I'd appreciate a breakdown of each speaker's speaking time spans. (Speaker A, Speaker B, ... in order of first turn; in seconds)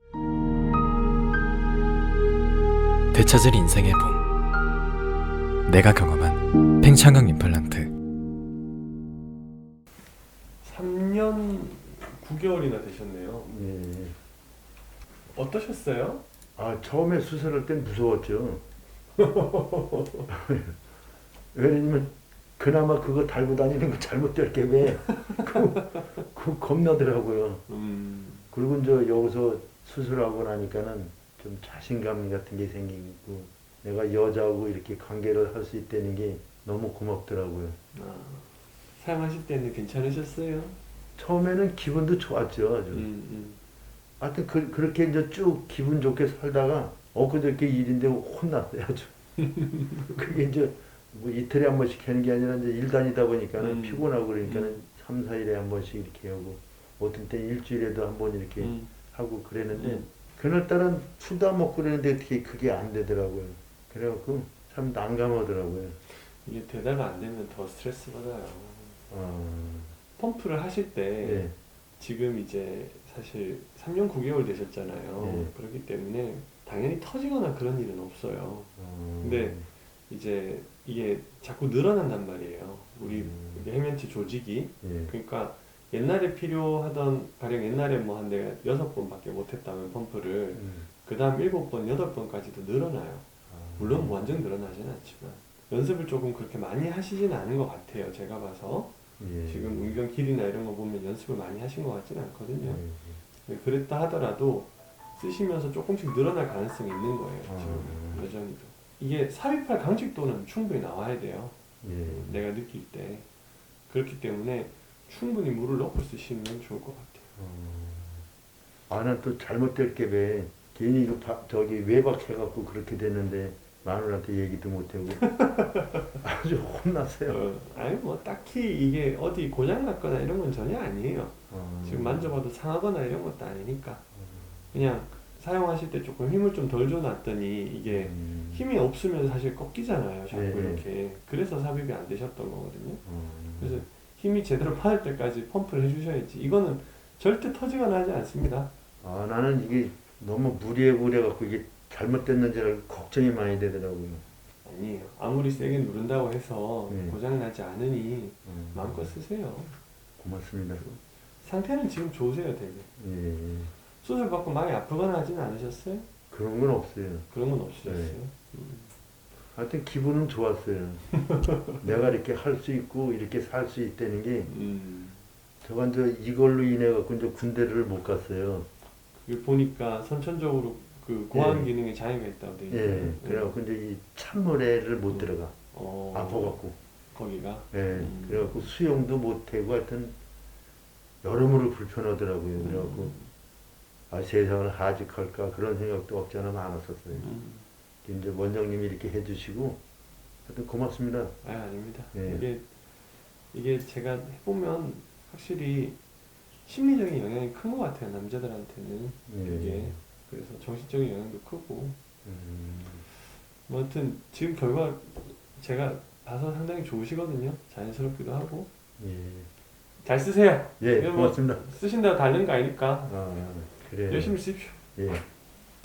Speaker A: 3.1-4.2, 5.7-7.9
Speaker B: 10.6-13.5, 15.3-16.2, 19.1-20.3, 25.2-25.6, 27.7-28.5, 37.9-40.8, 42.9-43.6, 49.4-50.1, 53.6-54.8, 58.6-58.9, 59.7-60.1, 66.1-69.0, 70.2-102.8, 103.4-113.3, 113.9-117.3, 125.2-126.1, 127.3-134.0, 134.7-143.0, 143.6-148.7, 154.6-159.8, 160.8-162.9, 164.0-166.1, 167.3-168.9, 171.3-172.0, 174.5-175.2, 179.2-183.6, 185.1-186.6, 187.1-188.7, 192.6-193.3, 197.1-197.7, 201.4-202.6, 203.5-206.0, 206.7-212.0, 213.7-218.7, 220.0-223.1, 224.1-224.8
Speaker C: 13.4-14.2, 16.6-18.6, 20.3-20.8, 21.5-27.6, 28.5-37.8, 41.1-43.1, 44.2-49.1, 50.0-66.0, 69.1-69.9, 71.2-71.5, 75.2-75.5, 78.8-79.7, 83.0-83.7, 84.8-85.1, 90.5-90.9, 93.5-94.4, 99.2-100.0, 102.6-103.2, 107.4-108.3, 111.8-112.4, 117.4-118.2, 118.9-125.3, 126.2-127.4, 131.5-132.3, 137.9-138.6, 140.3-140.8, 143.1-143.8, 149.0-154.2, 156.9-157.2, 158.4-159.2, 160.2-160.8, 163.0-163.7, 166.3-167.3, 167.8-168.2, 169.5-171.1, 171.8-174.5, 175.6-178.7, 181.3-181.7, 182.7-185.5, 186.1-186.7, 187.7-190.1, 191.2-193.1, 194.1-197.3, 198.0-199.8, 200.4-201.3, 202.1-202.4, 209.3-210.0, 212.2-213.0, 219.0-219.5, 220.8-221.6, 223.1-224.4, 224.9-225.2